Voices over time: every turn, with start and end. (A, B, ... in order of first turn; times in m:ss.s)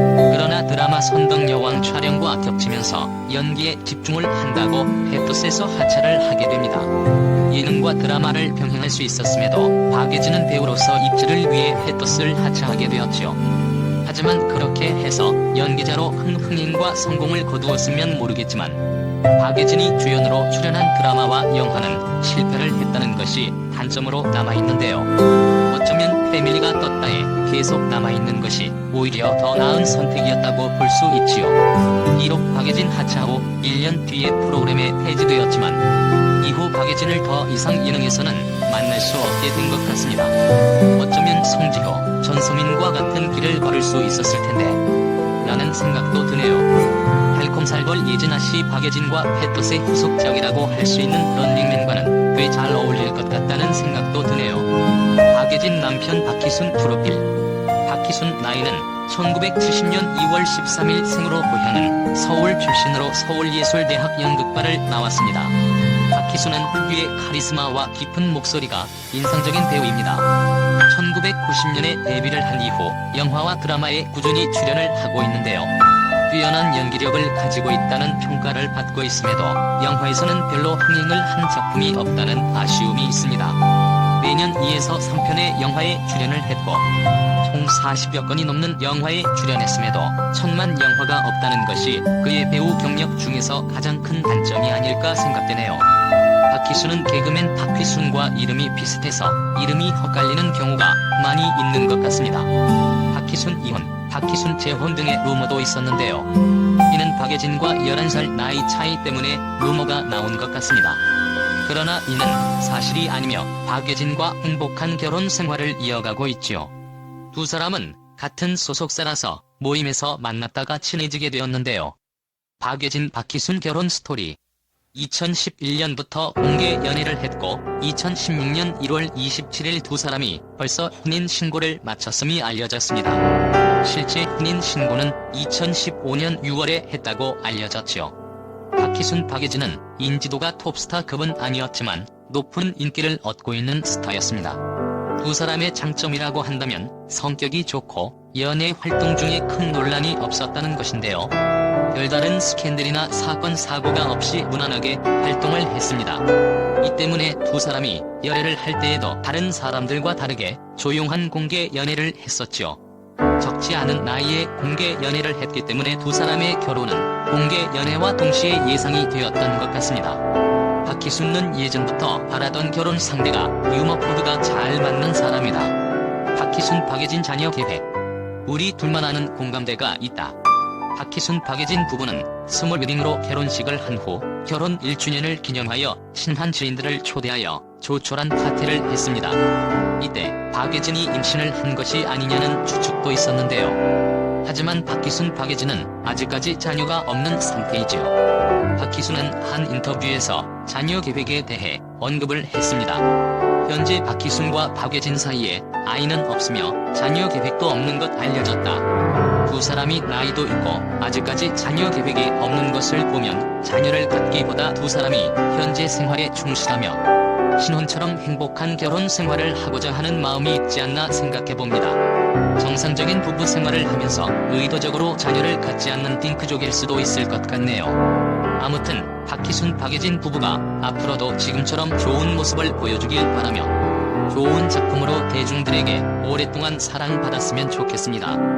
0:00.3-0:06.9 A
0:07.5-0:13.4 A
0:14.0-0:18.8 A
0:19.4-0:25.1 A
0:25.7-0:31.6 A
0:32.1-0:35.8 A
0:36.4-0:40.3 A
0:41.0-0:44.8 A
0:45.4-0:46.7 A
0:47.3-0:54.7 A
0:55.3-0:57.3 A
0:57.8-1:05.5 A
1:06.1-1:10.3 A
1:10.9-1:15.7 A
1:16.3-1:23.6 A
1:24.2-1:26.8 A
1:27.4-1:35.8 A
1:36.5-1:42.5 A
1:43.1-1:46.3 A
1:46.9-1:51.0 A
1:51.6-1:56.7 A
1:57.3-2:02.0 A
2:02.6-2:04.4 A
2:04.9-2:13.2 A
2:13.8-2:18.1 A
2:18.8-2:24.6 A
2:25.2-2:31.3 A
2:31.9-2:36.2 A
2:36.8-2:42.8 A
2:43.4-2:50.2 A
2:50.8-2:55.7 A
2:56.3-2:57.8 A
2:58.4-3:00.4 A
3:00.9-3:09.4 A
3:10.0-3:13.8 A
3:14.4-3:18.1 A
3:18.8-3:23.0 A
3:23.6-3:28.8 A
3:29.4-3:37.0 A
3:37.6-3:42.0 A
3:42.6-3:48.0 A
3:48.6-3:53.7 A
3:54.3-3:58.4 A